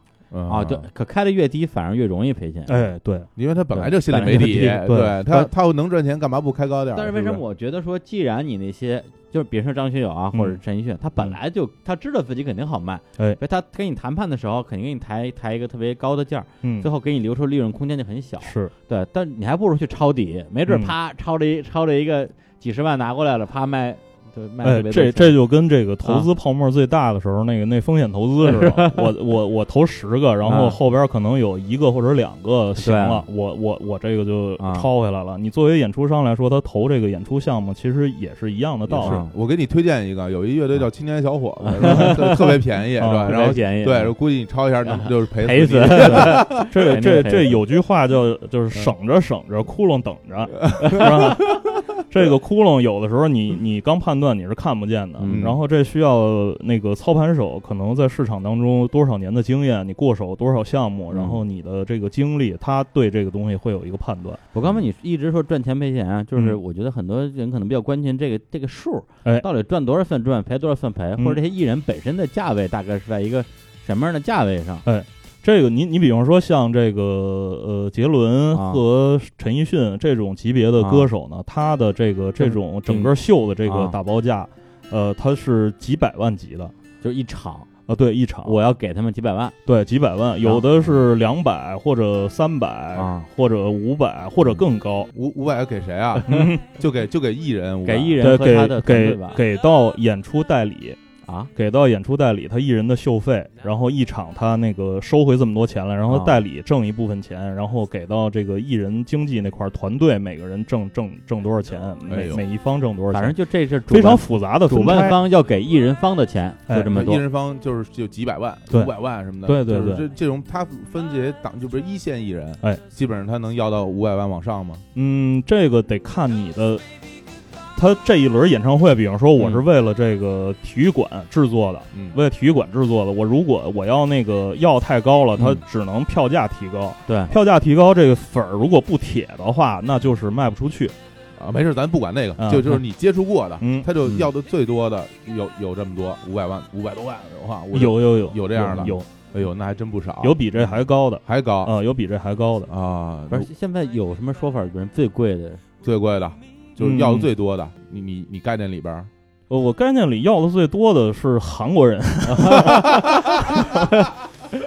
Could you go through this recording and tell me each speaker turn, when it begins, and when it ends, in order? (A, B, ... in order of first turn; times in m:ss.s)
0:00.3-0:00.9 A
0:00.5-0:02.9 B
0:02.7-0:03.3 C
0:03.4-0:07.4 A
0:03.7-0:05.5 B
0:04.7-0:05.2 C
0:06.9-0:25.4 B
0:10.3-0:10.6 C
0:16.6-0:16.9 C
0:18.4-0:18.7 C
0:20.7-0:20.9 C
0:24.6-0:39.2 C
0:28.5-0:29.1 B
0:30.4-0:30.8 B
0:32.8-0:33.2 B
0:34.6-0:34.9 B
0:38.9-0:46.6 A
0:38.9-0:39.3 B
0:41.6-0:42.6 B
0:41.8-0:42.1 C
0:43.0-0:43.5 C
0:43.2-0:44.2 B
0:44.8-0:47.6 B
0:46.0-1:04.4 C
0:50.7-0:51.3 A
0:55.2-0:55.5 B
0:55.3-0:55.6 A
1:01.1-1:01.4 B
1:04.5-1:14.8 B
1:14.8-1:26.7 C
1:18.5-1:18.8 B
1:20.8-1:21.1 B
1:22.4-1:23.1 B
1:23.6-1:24.0 B
1:27.0-1:27.7 B
1:27.9-1:28.6 C
1:28.4-1:29.5 B
1:29.6-1:35.1 C
1:30.4-1:31.0 B
1:32.9-1:33.3 B
1:35.1-1:38.2 A
1:36.2-1:36.5 B
1:36.3-1:36.6 C
1:37.8-1:39.4 B
1:38.2-1:41.0 C
1:41.5-1:53.4 C
1:46.1-1:46.4 B
1:52.1-1:52.4 A
1:53.1-1:57.2 B
1:53.9-1:55.2 C
1:56.7-1:57.0 C
1:56.9-2:04.8 A
1:59.4-2:00.0 C
2:04.9-2:06.8 C
2:07.8-2:20.9 C
2:09.4-2:09.6 B
2:15.4-2:15.6 B
2:17.1-2:17.3 B
2:21.4-2:31.7 A
2:22.4-2:22.8 C
2:23.6-2:23.9 C
2:27.7-2:29.1 C
2:30.2-2:32.7 C
2:32.7-2:33.5 A
2:33.3-2:35.6 B
2:35.8-2:39.1 A
2:36.8-2:37.3 C
2:39.5-2:43.8 C
2:42.3-2:44.1 B
2:42.8-2:43.2 A